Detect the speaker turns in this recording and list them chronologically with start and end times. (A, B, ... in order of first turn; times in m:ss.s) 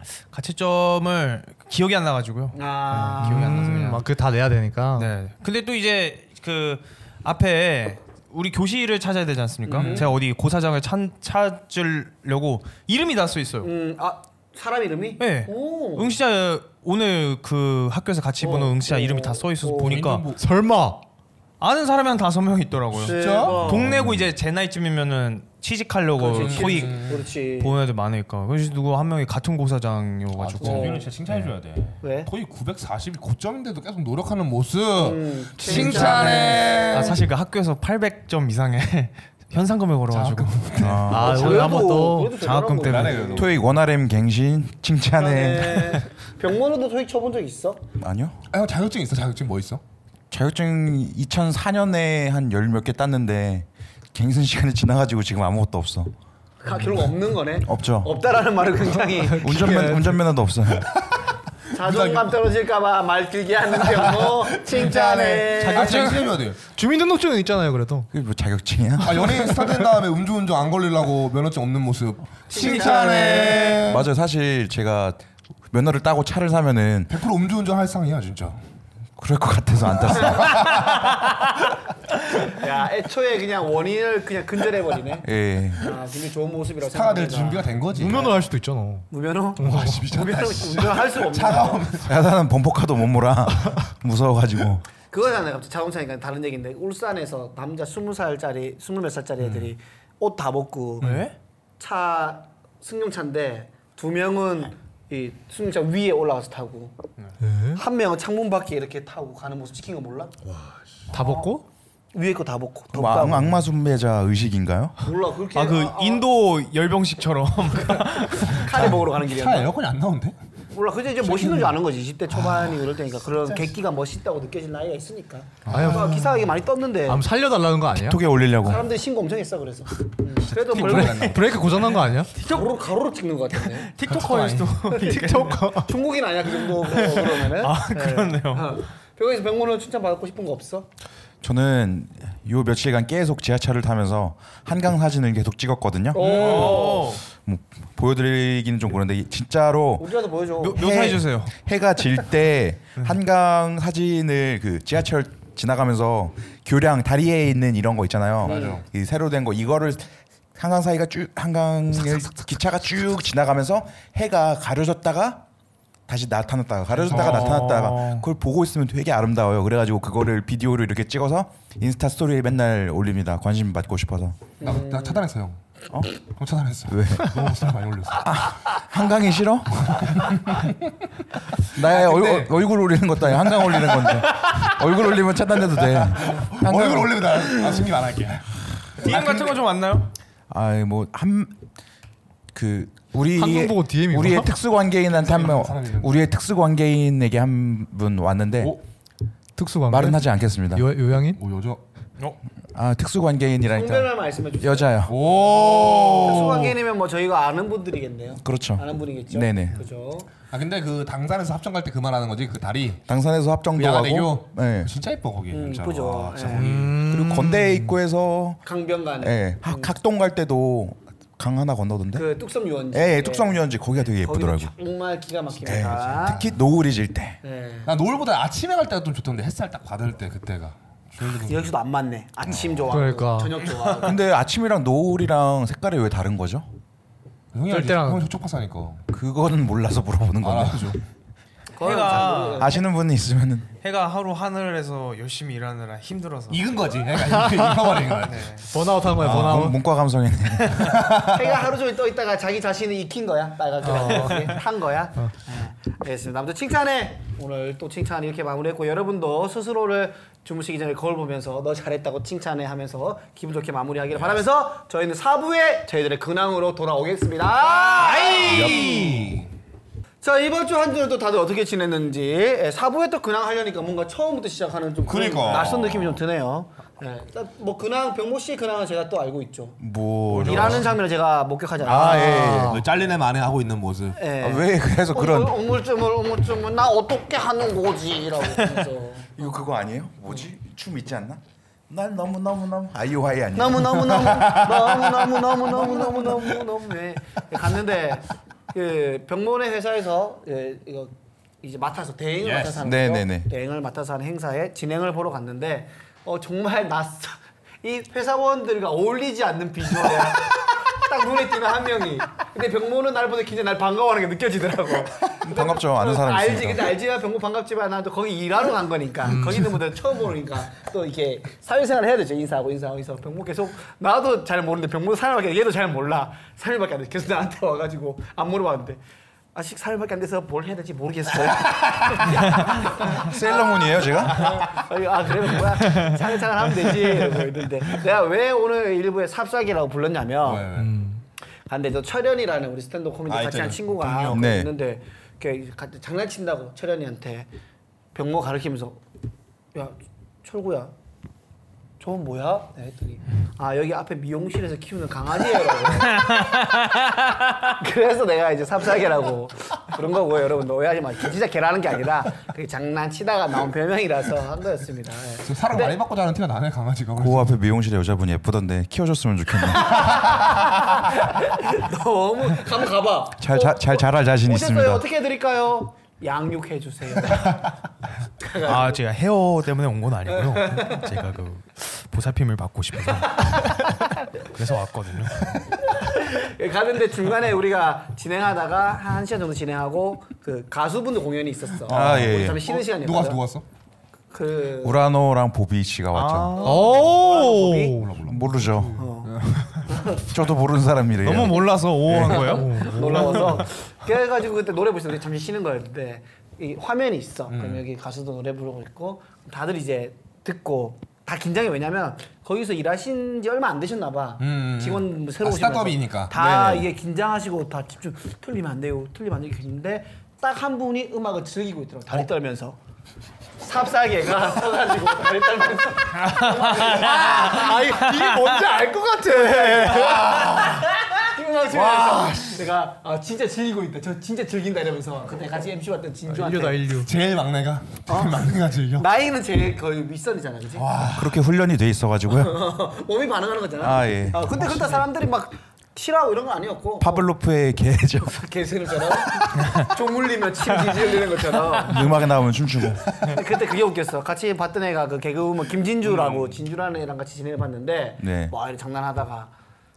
0:00.3-0:04.0 A
0:02.5-0:03.6 B
0:03.1-0:05.1 C
0:05.0-0:13.7 A
0:09.6-0:10.1 B
0:09.7-0:10.1 D
0:13.6-0:16.2 B
0:15.2-0:20.2 A
0:18.4-0:20.0 B
0:19.8-0:20.4 D
0:20.4-0:21.0 C
0:21.6-0:31.1 A
0:22.9-0:24.3 D
0:23.0-0:23.9 B
0:26.2-0:27.8 B
0:26.4-0:27.2 D
0:30.3-0:37.2 D
0:30.6-0:31.1 B
0:32.0-0:32.3 B
0:35.0-0:37.1 B
0:35.7-0:40.9 A
0:40.1-0:41.2 D
0:40.8-0:41.4 E
0:41.0-0:42.4 C
0:41.1-0:43.5 B
0:42.4-0:43.4 A
0:42.8-0:43.7 D
0:43.4-0:46.0 E
0:45.2-0:47.8 B
0:48.0-0:48.4 E
0:48.5-0:49.8 D
0:50.3-0:56.1 E
0:56.6-1:00.0 B
0:57.6-0:58.1 E
0:59.1-1:00.2 C
0:59.4-1:00.9 E
1:00.7-1:01.2 D
1:01.7-1:06.1 B
1:01.8-1:02.3 D
1:03.8-1:06.6 D
1:05.6-1:08.1 C
1:05.8-1:06.2 A
1:08.1-1:09.6 E
1:09.0-1:14.1 D
1:12.5-1:13.8 B
1:13.8-1:17.1 E
1:17.1-1:18.6 D
1:19.2-1:20.9 E
1:20.1-1:21.0 D
1:22.4-1:28.3 B
1:25.2-1:25.9 E
1:26.8-1:28.3 D
1:27.9-1:30.0 C
1:29.1-1:31.9 B
1:29.6-1:32.2 D
1:32.0-1:34.8 E
1:35.1-1:46.9 B
1:39.4-1:39.7 D
1:41.0-1:41.3 A
1:47.4-1:47.8 C
1:47.7-1:50.3 B
1:51.1-1:51.6 C
1:51.1-1:51.5 B
1:52.1-1:53.6 B
1:52.9-1:55.0 E
1:55.0-1:56.2 B
1:55.5-1:58.7 A
1:58.3-1:59.7 B
1:58.6-2:00.4 D
2:00.7-2:07.2 B
2:01.2-2:01.8 D
2:02.3-2:02.8 D
2:03.4-2:03.7 D
2:05.6-2:06.3 D
2:05.7-2:06.3 C
2:07.0-2:08.2 C
2:07.9-2:08.9 E
2:08.6-2:11.4 B
2:10.5-2:12.0 D
2:10.8-2:12.3 C
2:12.3-2:13.9 B
2:13.6-2:15.8 A
2:14.1-2:14.7 D
2:14.9-2:15.9 C
2:15.8-2:20.9 B
2:16.7-2:18.8 A
2:21.4-2:30.1 E
2:26.1-2:27.2 B
2:26.2-2:26.8 D
2:26.2-2:27.2 A
2:30.0-2:30.8 B
2:30.6-2:31.5 A
2:30.7-2:45.4 E
2:38.4-2:38.8 D
2:38.4-2:38.8 B
2:46.1-2:54.4 E
2:47.0-2:47.7 D
2:47.0-2:48.2 A
2:54.6-2:55.2 B
2:54.6-2:55.6 D
2:56.3-2:58.3 D
2:56.9-2:57.5 E
2:58.2-3:00.2 E
2:59.8-3:00.7 D
3:01.7-3:07.8 E
3:01.7-3:02.5 D
3:03.5-3:04.2 D
3:05.8-3:09.4 D
3:09.0-3:10.1 A
3:10.5-3:11.6 E
3:12.5-3:18.8 E
3:13.4-3:14.5 C
3:15.2-3:16.2 D
3:19.6-3:21.4 C
3:19.9-3:20.9 E
3:21.3-3:21.8 D
3:22.7-3:25.2 E
3:23.7-3:25.0 B
3:25.0-3:26.8 D
3:25.6-3:30.3 B
3:28.4-3:29.8 E
3:30.5-3:33.0 D
3:33.1-3:34.9 E
3:33.8-3:37.0 D
3:35.5-3:36.7 B
3:36.5-3:38.0 C
3:36.9-3:38.6 E
3:38.6-3:39.9 B
3:39.2-3:42.3 E
3:42.1-3:43.6 B
3:42.9-3:44.7 E
3:44.2-3:46.4 B
3:45.6-3:47.4 E
3:46.2-3:46.5 D
3:47.4-3:47.9 B
3:47.8-3:51.7 D
3:51.2-3:54.2 B
3:52.5-3:52.8 D
3:52.9-3:53.6 C
3:54.0-3:56.6 E
3:57.5-3:59.0 D
3:57.7-3:58.3 C
3:59.1-4:01.0 E
4:00.4-4:01.0 D
4:01.8-4:02.8 B
4:01.8-4:02.7 A
4:02.5-4:03.7 E
4:03.8-4:06.6 A
4:06.5-4:09.7 D
4:07.4-4:07.7 C
4:08.2-4:08.7 A
4:08.7-4:09.8 C
4:09.2-4:11.0 E
4:10.7-4:11.6 D
4:11.2-4:29.1 B
4:13.8-4:14.6 C
4:27.7-4:29.5 D
4:28.4-4:29.4 E
4:30.2-4:39.8 B
4:35.1-4:36.2 D
4:39.8-4:40.9 E
4:40.3-4:40.8 A
4:40.4-4:42.6 B
4:41.8-4:42.8 E
4:41.9-4:42.8 C
4:42.3-4:44.2 D
4:44.2-4:49.5 B
4:44.4-4:45.6 E
4:49.4-4:54.4 E
4:53.5-5:29.0 B
4:53.9-4:56.7 D
5:02.4-5:02.8 D
5:02.8-5:03.5 E
5:15.4-5:17.0 E
5:19.2-5:19.8 C
5:29.5-5:40.7 B
5:33.0-5:34.6 E
5:35.9-5:36.2 A
5:36.9-5:37.2 D
5:40.4-5:40.9 D
5:40.7-5:41.2 C
5:41.7-5:47.5 B
5:43.3-5:44.5 D
5:44.3-5:44.7 E
5:48.1-5:49.0 B
5:49.7-5:50.9 B
5:52.0-5:56.6 B
5:56.1-5:57.5 A
5:57.6-6:06.0 B
6:05.4-6:07.5 D
6:07.2-6:10.4 E
6:09.8-6:17.6 B
6:13.4-6:15.0 E
6:18.4-6:19.0 B
6:18.6-6:25.5 A
6:20.3-6:21.1 B
6:25.4-6:25.7 D
6:25.8-6:33.4 B
6:31.8-6:33.6 D
6:31.9-6:32.6 E
6:34.3-6:35.0 B
6:34.8-6:36.5 E
6:36.1-6:36.9 A
6:36.6-6:38.0 B
6:36.6-6:39.0 C
6:38.0-6:38.4 D
6:38.2-6:39.0 E
6:38.9-6:40.2 B
6:39.2-6:39.8 D
6:40.2-6:42.4 E
6:41.2-6:43.5 A
6:42.2-6:43.6 C
6:42.2-7:02.8 B
6:47.5-6:47.8 D
6:54.4-6:56.3 D
6:56.3-6:56.9 E
7:03.6-7:08.0 B
7:06.2-7:08.5 A
7:06.9-7:10.3 C
7:09.2-7:16.8 B
7:10.2-7:10.9 D
7:11.7-7:12.6 D
7:16.3-7:17.1 C
7:17.0-7:19.0 D
7:18.1-7:20.8 B
7:20.7-7:21.4 D
7:21.1-7:22.6 E
7:22.3-7:27.3 B
7:23.8-7:25.0 E
7:27.0-7:28.4 E
7:28.2-7:32.2 B
7:29.0-7:29.5 E
7:31.8-7:33.3 E
7:33.1-7:39.5 B
7:36.0-7:36.6 D
7:38.2-7:38.5 E